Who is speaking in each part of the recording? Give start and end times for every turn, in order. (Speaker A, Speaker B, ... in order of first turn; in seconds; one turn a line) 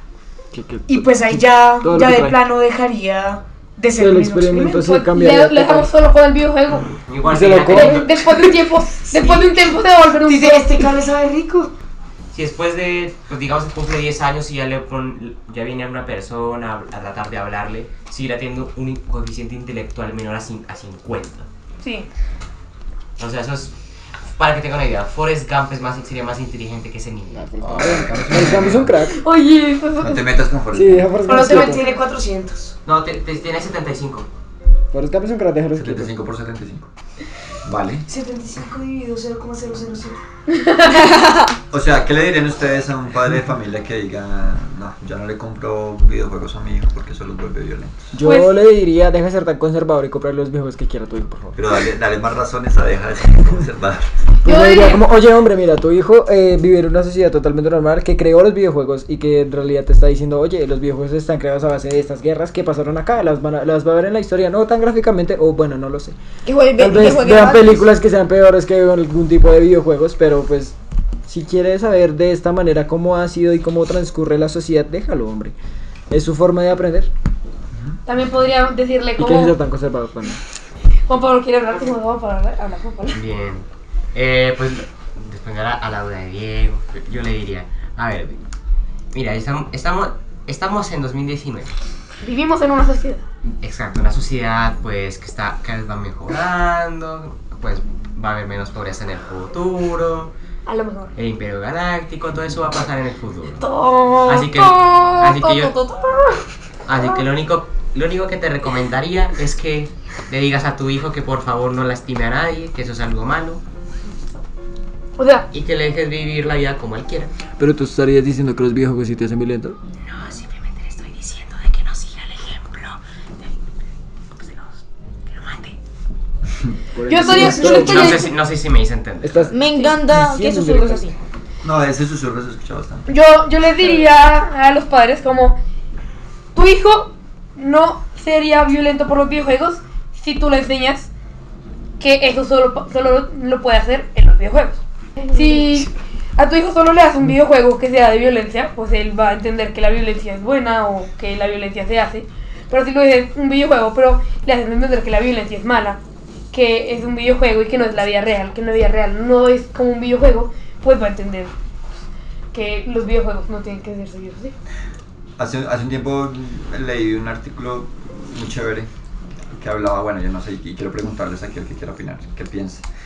Speaker A: 0.5-2.4
Speaker B: 0.9-4.9
Speaker A: 4.0-5.9
Speaker C: 4.8-7.0
Speaker D: 7.1-8.5
Speaker A: 7.2-8.1
Speaker C: 7.7-10.9
Speaker B: 9.1-11.7
Speaker D: 12.3-21.5
Speaker C: 21.8-22.1
Speaker D: 23.2-28.7
Speaker A: 27.3-29.2
Speaker E: 27.7-29.0
Speaker C: 29.1-30.3
Speaker E: 30.0-31.2
Speaker A: 30.7-31.9
Speaker B: 31.2-32.8
Speaker C: 31.6-31.9
Speaker D: 32.9-34.3
Speaker A: 34.9-36.1
Speaker E: 35.8-36.9
Speaker E: 37.6-38.1
Speaker B: 38.1-40.2
Speaker C: 40.5-41.2
Speaker F: 41.0-41.5
Speaker E: 41.7-48.1
Speaker A: 48.1-51.6
Speaker C: 48.2-48.5
Speaker E: 51.5-54.1
Speaker C: 54.4-55.0
Speaker A: 54.5-66.2
Speaker F: 66.5-67.9
Speaker A: 66.8-75.5
Speaker A: 76.1-77.1
Speaker C: 78.1-79.6
Speaker A: 79.2-80.4
Speaker C: 81.1-83.2
Speaker D: 83.1-88.4
Speaker D: 89.1-91.7
Speaker C: 92.2-93.2
Speaker D: 93.6-100.3
Speaker C: 100.7-101.1
Speaker D: 101.2-103.7
Speaker C: 103.6-106.4
Speaker D: 104.2-105.8
Speaker D: 106.9-113.6
Speaker C: 115.2-115.5
Speaker D: 115.5-117.3
Speaker A: 117.6-119.8
Speaker D: 120.0-123.5
Speaker D: 124.4-125.8
Speaker A: 127.0-128.3
Speaker C: 127.0-128.3
Speaker D: 127.3-129.5
Speaker A: 129.2-131.1
Speaker F: 129.5-131.1
Speaker C: 129.7-130.0
Speaker E: 131.6-133.1
Speaker C: 133.1-135.6
Speaker C: 136.5-141.1
Speaker C: 142.0-156.0
Speaker C: 156.5-161.5
Speaker C: 162.5-164.6
Speaker E: 165.4-168.9
Speaker E: 169.5-172.8